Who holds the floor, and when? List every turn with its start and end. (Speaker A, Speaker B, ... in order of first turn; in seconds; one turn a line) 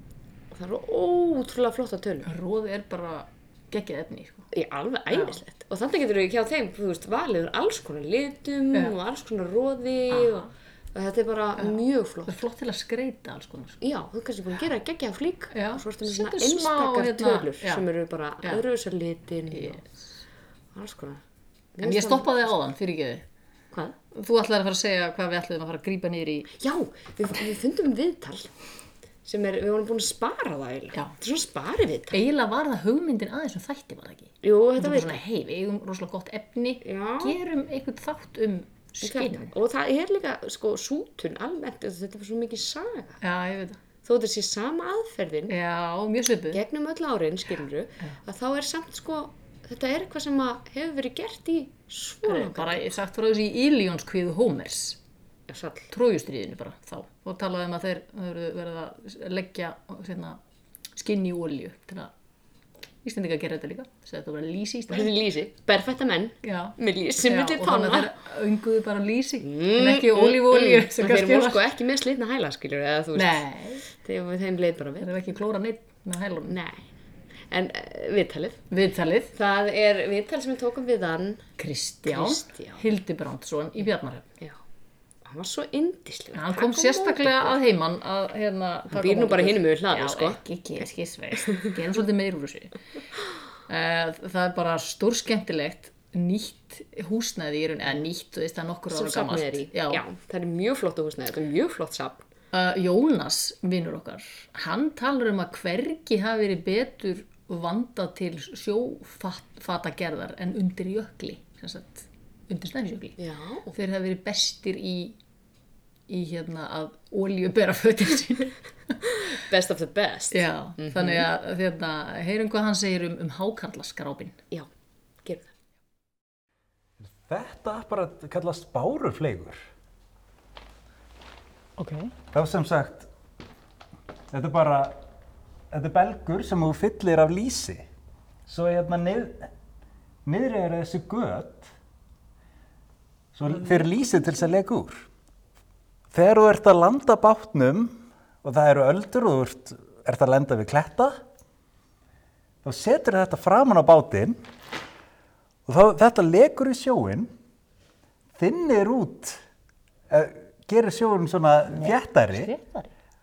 Speaker A: 0.5-2.3
Speaker B: 2.2-4.5
Speaker A: 4.5-12.4
Speaker B: 5.1-5.4
Speaker B: 12.2-13.8
Speaker A: 13.8-19.8
Speaker B: 15.5-17.9
Speaker B: 19.5-20.0
Speaker A: 20.7-21.2
Speaker A: 21.7-22.5
Speaker B: 21.8-23.2
Speaker B: 24.1-26.5
Speaker A: 26.5-28.5
Speaker A: 29.2-32.2
Speaker B: 32.1-39.5
Speaker A: 34.4-35.2
Speaker A: 36.8-37.4
Speaker A: 39.0-43.2
Speaker B: 43.2-43.8
Speaker A: 44.0-45.5
Speaker B: 45.5-46.6
Speaker A: 46.5-52.9
Speaker B: 52.2-55.0
Speaker A: 55.5-55.9
Speaker B: 55.9-60.4
Speaker B: 60.9-62.1
Speaker B: 63.0-65.1
Speaker A: 64.9-68.1
Speaker B: 66.4-71.6
Speaker A: 69.4-75.1
Speaker B: 73.1-73.8
Speaker B: 75.0-76.5
Speaker A: 76.5-76.9
Speaker A: 77.5-78.6
Speaker B: 78.7-79.3
Speaker A: 79.3-81.5
Speaker B: 81.6-84.2
Speaker A: 82.1-82.8
Speaker A: 85.2-87.6
Speaker B: 86.3-92.7
Speaker A: 88.9-90.4
Speaker B: 93.7-100.0
Speaker A: 98.9-102.3
Speaker B: 102.5-113.2
Speaker A: 113.2-113.7
Speaker B: 113.7-115.2
Speaker B: 116.1-118.9
Speaker A: 119.1-121.3
Speaker B: 120.3-124.4
Speaker A: 125.2-125.5
Speaker C: 127.2-129.6
Speaker B: 131.8-132.1
Speaker C: 132.3-133.1
Speaker C: 134.3-135.0
Speaker C: 135.7-137.8
Speaker C: 138.5-139.5
Speaker C: 140.2-141.7
Speaker C: 143.3-145.1
Speaker A: 143.5-144.5
Speaker C: 146.1-151.2
Speaker C: 152.6-154.4
Speaker C: 155.7-157.3
Speaker C: 158.3-159.4
Speaker C: 160.1-162.5
Speaker B: 161.7-162.9